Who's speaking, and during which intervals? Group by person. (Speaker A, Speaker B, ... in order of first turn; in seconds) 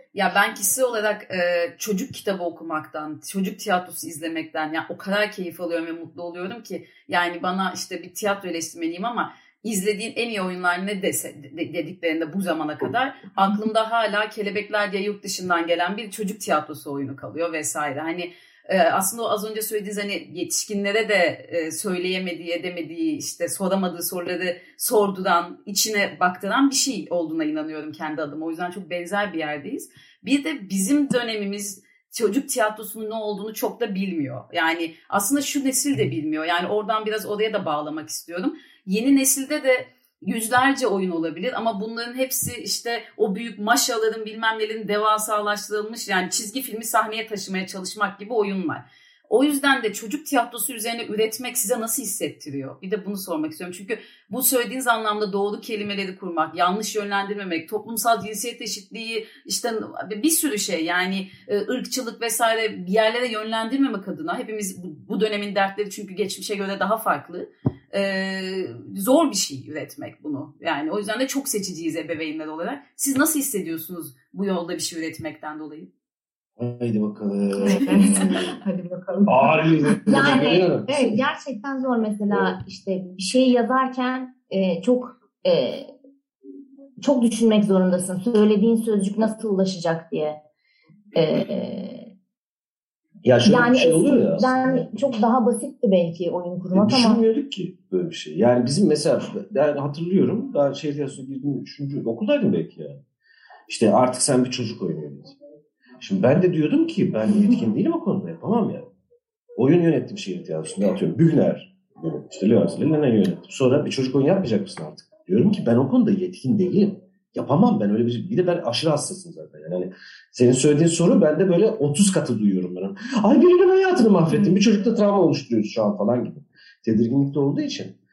Speaker A: 0.1-75.9
Speaker B: 76.6-78.6, 79.3-81.2, 93.2-94.9, 96.7-103.0, 103.7-105.4, 106.0-108.9, 109.6-128.0
Speaker C: 77.5-80.5
Speaker D: 80.1-85.9, 87.0-90.4, 91.1-92.1, 93.4-97.2